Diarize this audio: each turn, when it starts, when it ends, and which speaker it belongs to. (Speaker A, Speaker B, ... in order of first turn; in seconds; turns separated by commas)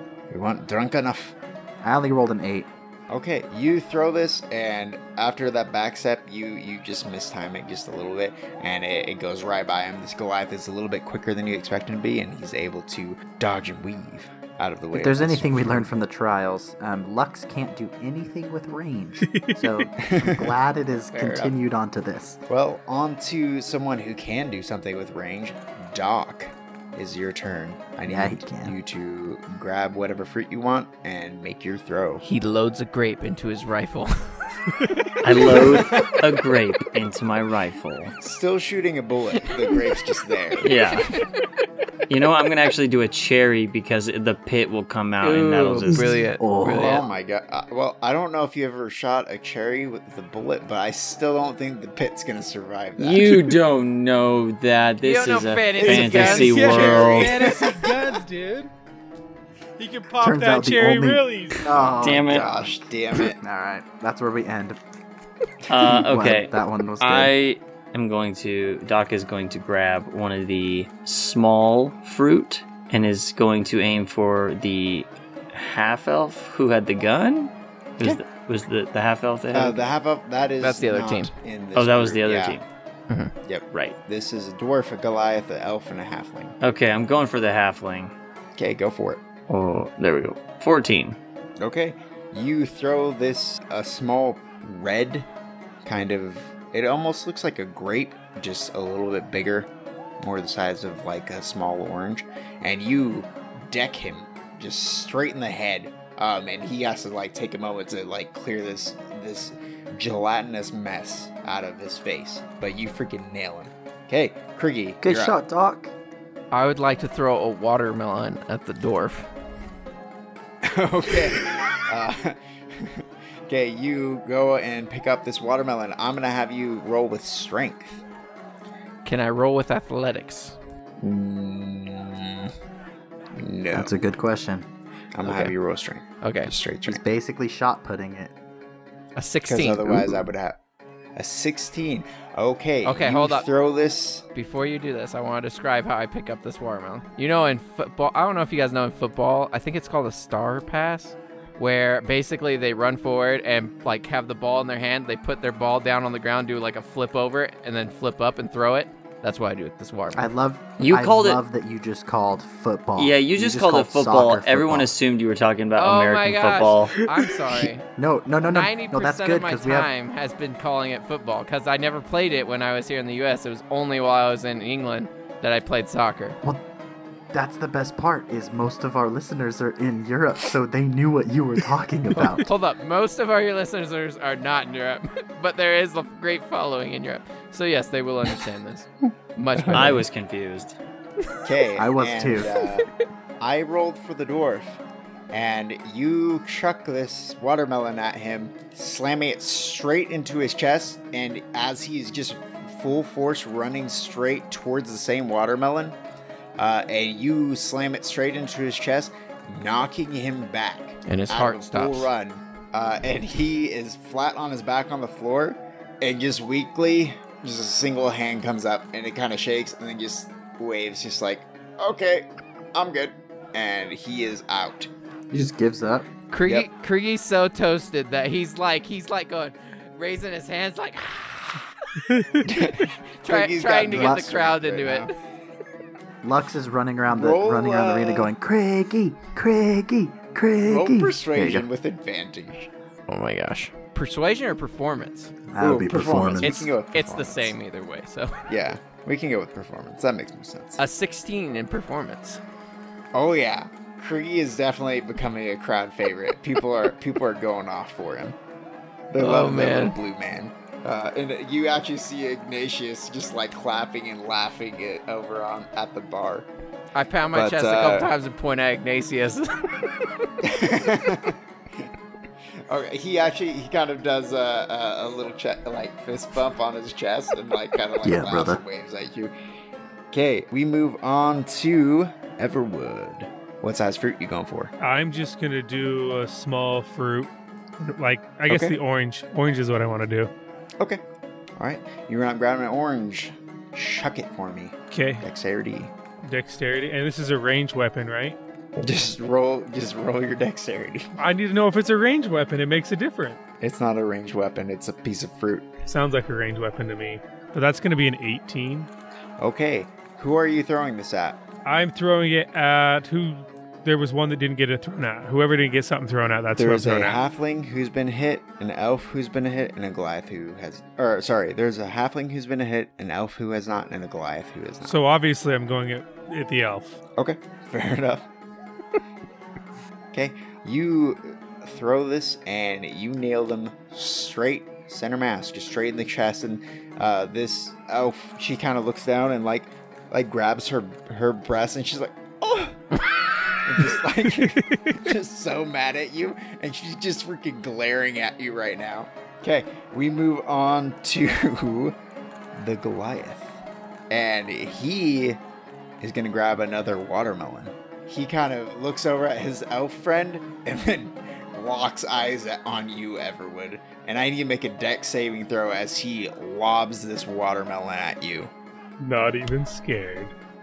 Speaker A: 0.3-1.4, Speaker B: 1.8-2.7, Speaker A: 3.1-15.9, Speaker B: 14.9-22.4, Speaker C: 19.2-19.9, Speaker A: 20.0-20.6, Speaker A: 21.1-21.6, Speaker A: 22.5-32.2, Speaker B: 28.1-28.8, Speaker D: 32.2-34.1, Speaker C: 34.8-35.1, Speaker E: 35.2-38.2, Speaker A: 35.7-36.1, Speaker A: 38.2-40.7, Speaker E: 40.6-41.1, Speaker E: 42.1-46.2, Speaker D: 45.2-47.0, Speaker B: 45.9-47.1, Speaker A: 46.7-53.5, Speaker E: 53.0-57.6, Speaker D: 55.0-56.7, Speaker A: 55.8-58.2, Speaker C: 56.2-58.7, Speaker C: 59.8-62.0, Speaker B: 60.2-62.8, Speaker E: 62.0-62.5, Speaker A: 62.2-63.4, Speaker B: 63.4-64.8, Speaker E: 65.7-79.8, Speaker B: 65.7-67.3, Speaker A: 79.5-82.6, Speaker D: 80.6-81.3, Speaker E: 81.8-82.6, Speaker A: 83.5-86.6, Speaker E: 86.6-88.1, Speaker A: 88.6-89.2, Speaker E: 89.5-91.2, Speaker A: 91.6-95.3, Speaker A: 95.8-115.3, Speaker B: 115.0-115.9, Speaker D: 116.5-119.3, Speaker A: 120.6-128.0, Speaker D: 129.1-130.6, Speaker A: 131.0-132.5, Speaker A: 133.3-134.0, Speaker B: 133.7-134.7, Speaker A: 135.1-137.0, Speaker D: 135.2-135.5, Speaker D: 136.2-136.5, Speaker B: 136.9-138.3, Speaker D: 139.2-140.1, Speaker A: 139.5-140.6, Speaker A: 141.2-144.3, Speaker D: 142.8-143.5, Speaker D: 144.3-160.3, Speaker B: 160.2-164.9, Speaker E: 160.8-161.4, Speaker E: 163.0-167.0, Speaker D: 165.8-167.8, Speaker B: 168.0-169.9, Speaker D: 168.5-176.4, Speaker B: 177.3-182.5, Speaker D: 182.4-190.1, Speaker A: 189.6-189.9, Speaker E: 189.7-190.8, Speaker A: 191.4-192.9, Speaker B: 191.8-192.5, Speaker A: 193.4-206.0, Speaker A: 206.6-224.9, Speaker D: 211.1-212.1, Speaker B: 225.3-226.1, Speaker D: 226.3-231.7, Speaker C: 232.0-232.6, Speaker A: 232.4-235.1, Speaker D: 232.8-235.1, Speaker B: 233.9-234.3, Speaker B: 236.2-241.7, Speaker A: 237.1-238.3, Speaker A: 240.6-242.7, Speaker D: 243.1-245.3, Speaker B: 245.5-246.7, Speaker A: 245.6-247.6, Speaker D: 246.4-248.3, Speaker A: 248.5-250.8, Speaker D: 250.8-252.4, Speaker A: 253.1-258.4, Speaker A: 259.1-266.5, Speaker D: 259.2-259.9, Speaker D: 266.9-269.9, Speaker A: 267.3-268.1, Speaker A: 270.4-271.9, Speaker A: 272.7-279.3, Speaker B: 278.0-278.6, Speaker A: 280.1-284.7, Speaker C: 284.8-290.3, Speaker A: 288.5-288.8, Speaker A: 291.6-295.9, Speaker C: 294.9-295.2, Speaker C: 296.2-298.4, Speaker A: 298.8-301.2, Speaker C: 301.2-303.4, Speaker A: 303.6-305.7, Speaker C: 305.9-308.9, Speaker A: 309.4-311.4, Speaker C: 311.7-317.2, Speaker A: 316.6-325.0, Speaker C: 324.8-327.0, Speaker A: 327.2-328.3, Speaker A: 330.1-342.8, Speaker A: 343.6-352.0, Speaker C: 344.4-345.0, Speaker A: 352.5-355.4, Speaker A: 356.0-368.5, Speaker C: 369.0-370.3